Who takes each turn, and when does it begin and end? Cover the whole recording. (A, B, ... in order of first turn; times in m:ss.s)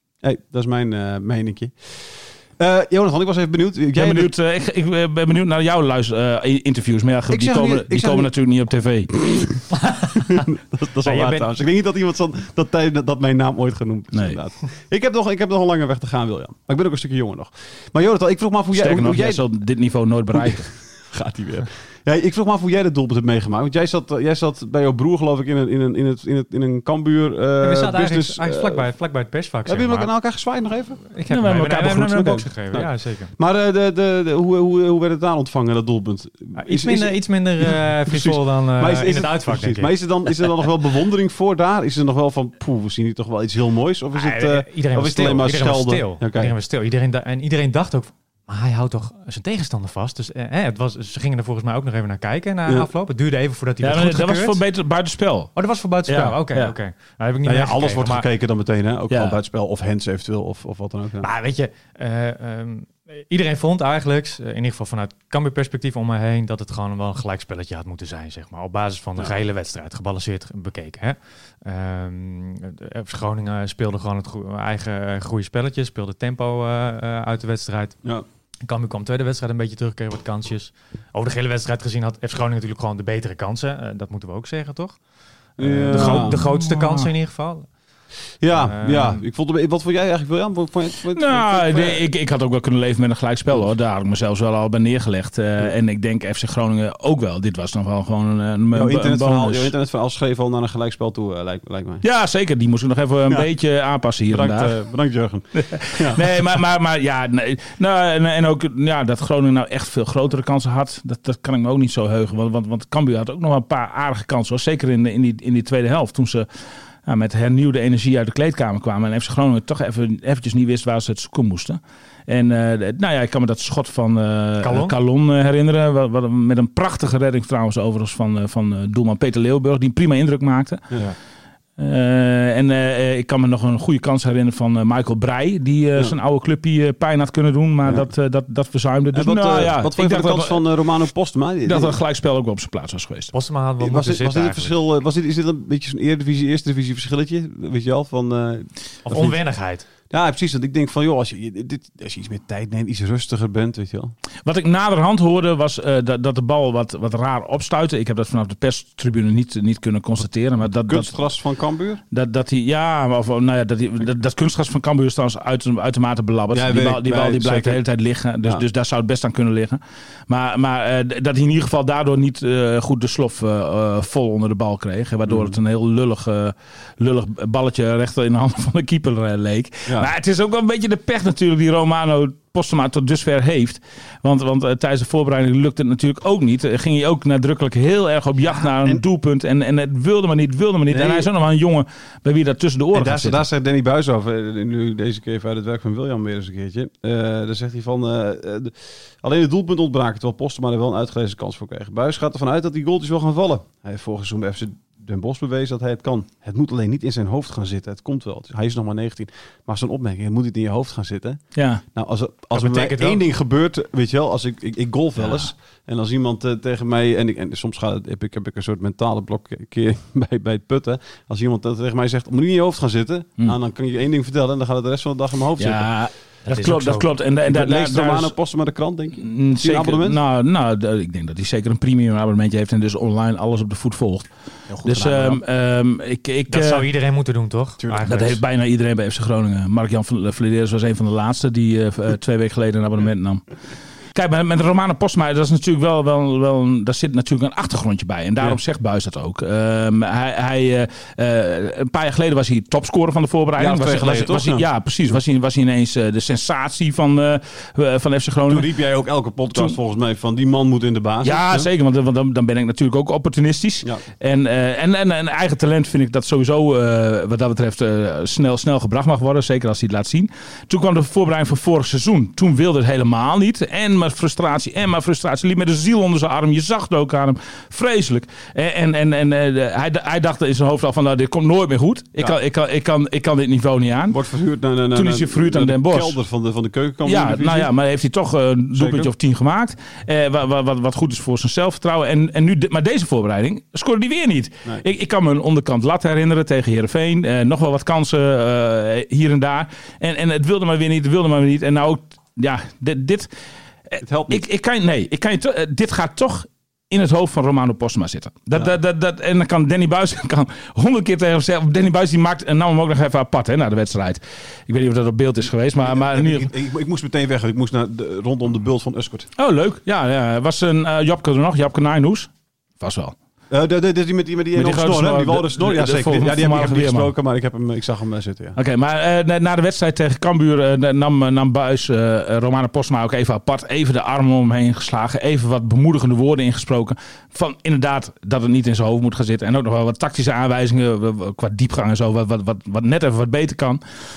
0:00.2-0:04.3 A
0:04.0-0:09.2 B
0:07.3-0:08.3 A
0:09.2-0:09.5 A
0:09.8-0:10.4 C
0:10.3-0:19.4 A
0:11.0-0:11.5 C
0:14.1-0:14.4 B
0:18.7-0:20.7 B
0:20.3-0:28.9 A
0:27.6-0:30.1 C
0:29.7-0:31.0 A
0:31.1-0:33.3 C
0:31.3-0:32.3 B
0:32.1-0:46.6 A
0:36.6-0:40.5 C
0:44.2-0:54.6 C
0:53.8-0:56.8 B
0:55.6-0:58.3 C
0:57.4-1:01.3 A
0:59.1-0:59.4 B
1:01.2-1:18.0 C
1:18.7-1:25.0 C
1:25.6-1:26.4 A
1:25.6-1:27.7 C
1:25.9-1:27.1 B
1:28.4-1:32.1 A
1:28.6-1:29.2 C
1:31.1-1:39.7 B
1:38.7-1:42.0 A
1:42.0-1:44.8 B
1:44.3-1:46.4 A
1:45.6-1:56.5 B
1:57.1-2:11.0 B
2:04.6-2:05.0 C
2:11.8-2:20.6 B
2:19.1-2:22.0 A
2:21.7-2:23.3 B
2:23.3-2:24.8 C
2:23.8-2:29.4 A
2:29.0-2:29.9 C
2:30.1-2:34.1 A
2:34.5-2:41.1 B
2:40.9-2:42.0 A
2:42.1-3:13.4 B
2:46.5-2:47.8 A
2:55.3-2:55.6 A
3:08.5-3:09.0 A
3:10.9-3:11.3 A
3:12.9-3:31.4 A
3:31.6-3:31.8 B
3:32.0-3:45.9 A
3:32.5-3:33.2 C
3:45.6-3:48.3 B
3:46.5-3:47.1 C
3:47.5-3:50.2 A
3:49.2-3:54.3 B
3:54.7-3:55.4 A
3:54.8-3:56.9 B
3:56.5-3:58.4 C
3:57.8-3:58.1 A
3:58.0-4:03.4 B
4:04.1-4:18.7 B
4:13.6-4:14.7 A
4:18.5-4:21.7 A
4:21.2-4:44.2 B
4:44.1-4:47.7 A
4:44.9-4:46.2 B
4:47.0-5:03.3 B
4:48.8-4:49.1 A
5:03.9-5:16.5 B
5:04.0-5:04.4 A
5:15.8-5:19.3 A
5:19.4-5:23.2 B
5:23.5-5:28.6 A
5:24.6-5:27.1 B
5:28.6-5:43.8 B